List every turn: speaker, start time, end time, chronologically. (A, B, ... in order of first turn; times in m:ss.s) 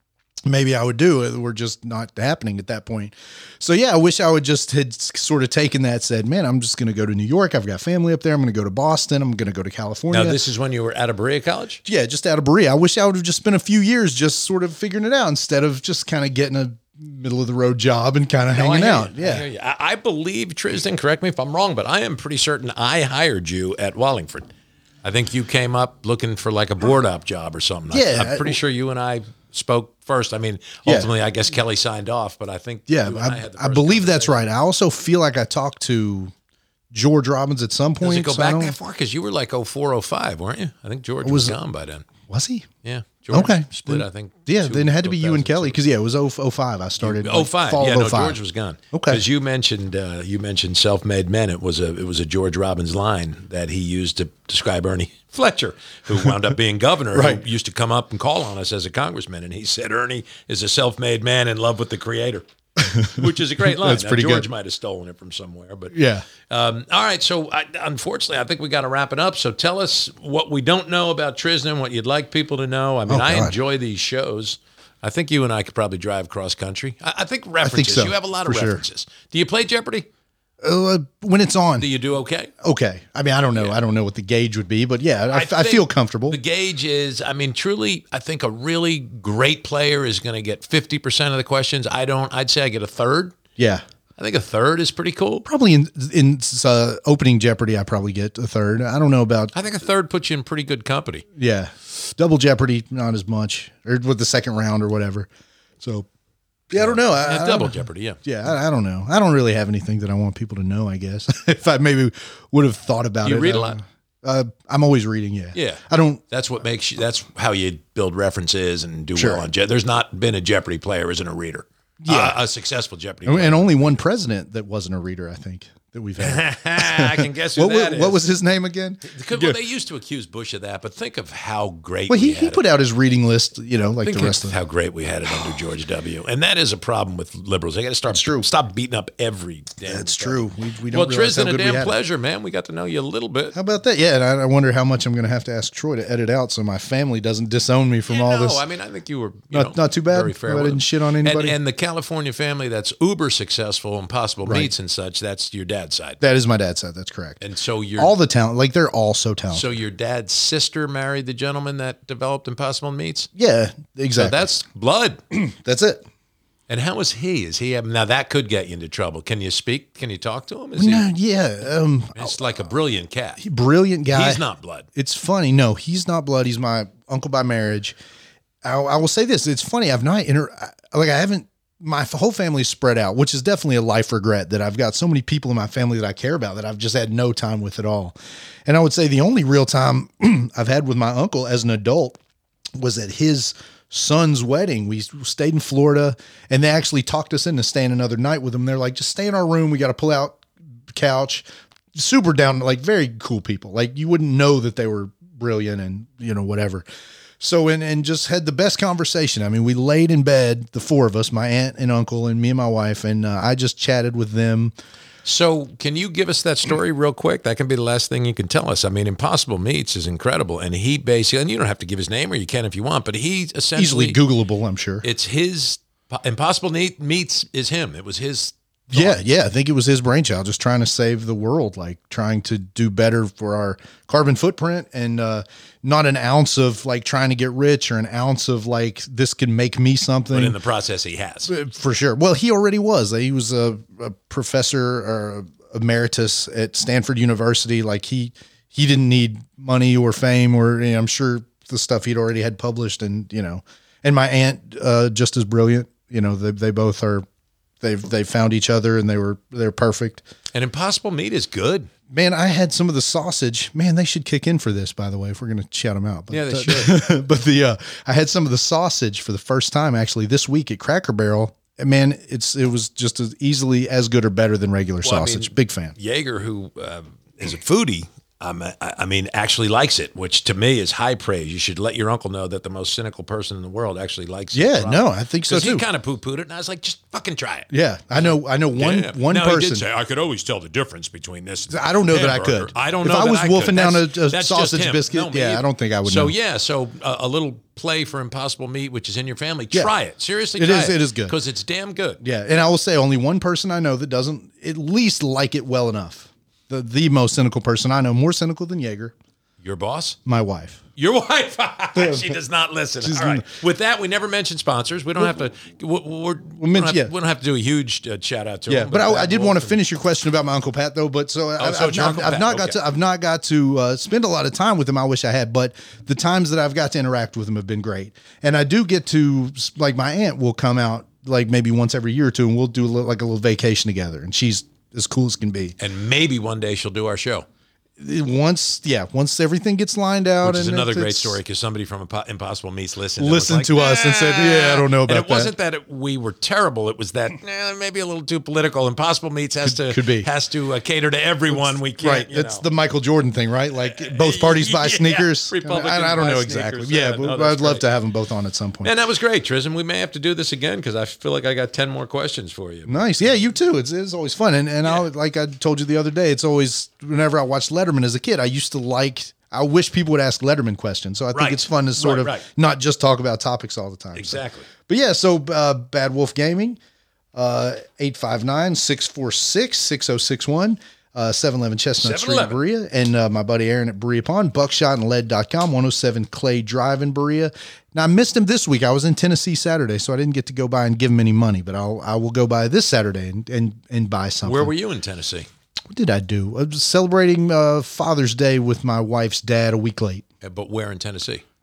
0:00.5-0:10.4 A
0:10.1-0:11.8 B
0:11.8-0:19.5 A
0:18.5-0:24.5 B
0:25.0-0:34.4 B
0:27.9-0:28.6 A
0:32.9-0:36.3 A
0:36.9-0:38.8 A
0:38.0-0:42.1 B
0:41.2-0:41.6 A
0:42.2-0:42.7 A
0:42.8-0:45.8 B
0:43.3-0:48.4 A
0:47.0-1:02.4 B
0:48.9-0:49.2 A
0:57.2-0:57.4 A
1:02.8-1:04.5 A
1:03.0-1:20.1 B
1:05.9-1:06.3 A
1:13.1-1:13.6 A
1:17.6-1:18.8 A
1:20.6-1:21.9 A
1:21.8-1:22.5 B
1:22.6-1:26.4 A
1:25.3-1:33.4 B
1:33.6-1:33.8 A
1:34.2-1:35.5 B
1:35.4-1:39.5 A
1:39.5-1:41.2 B
1:41.4-1:45.3 A
1:45.8-1:46.1 A
1:46.7-1:56.2 A
1:46.8-1:48.2 B
1:53.2-1:53.8 B
1:55.6-2:04.0 B
1:59.2-1:59.4 A
2:02.0-2:02.4 A
2:03.2-2:09.6 A
2:06.2-2:08.3 B
2:09.0-2:12.6 B
2:12.1-2:14.6 A
2:14.0-2:23.6 B
2:18.1-2:18.5 A
2:19.9-2:22.0 A
2:23.5-2:28.6 A
2:28.1-2:36.2 B
2:29.5-2:31.6 A
2:34.4-2:34.7 A
2:36.2-2:37.4 A
2:37.4-2:38.1 B
2:38.0-2:39.7 A
2:39.5-2:43.3 B
2:43.4-2:44.5 A
2:44.2-2:45.2 B
2:45.3-2:46.0 A
2:46.7-2:51.1 B
2:50.8-2:52.4 A
2:52.2-2:53.4 B
2:53.4-2:54.4 A
2:54.1-2:54.9 B
2:55.0-2:58.0 A
2:58.6-3:12.2 A
3:12.8-3:26.8 A
3:27.4-3:34.7 A
3:35.2-3:44.2 B
3:43.8-3:45.0 A
3:45.0-3:49.2 B
3:48.9-4:00.6 A
4:00.3-4:01.5 B
4:01.5-4:17.2 A
4:17.8-4:20.2 A
4:20.5-4:21.9 B
4:22.1-4:36.0 A
4:26.3-4:27.1 B
4:35.0-5:02.2 B
4:44.5-4:45.8 A
4:47.7-4:49.8 A
4:51.7-4:56.3 A
5:00.6-5:01.4 A
5:02.2-5:09.1 A
5:09.6-5:10.2 B
5:10.3-5:10.8 A
5:11.0-5:19.8 B
5:12.0-5:12.4 A
5:13.0-5:13.4 A
5:16.6-5:17.1 A
5:18.7-5:35.8 A
5:21.6-5:22.8 B
5:35.8-5:37.5 B
5:38.0-5:41.4 A
5:40.4-5:52.7 B
5:43.2-5:45.5 A
5:49.6-5:50.3 A
5:51.5-5:58.9 A
5:53.8-5:57.8 B
5:58.8-6:03.1 B
6:02.9-6:16.8 A
6:11.3-6:12.5 B
6:14.2-6:14.7 B
6:17.4-6:34.7 A
6:22.0-6:22.6 B
6:34.4-6:35.5 B
6:35.9-6:40.2 A
6:40.4-6:41.4 B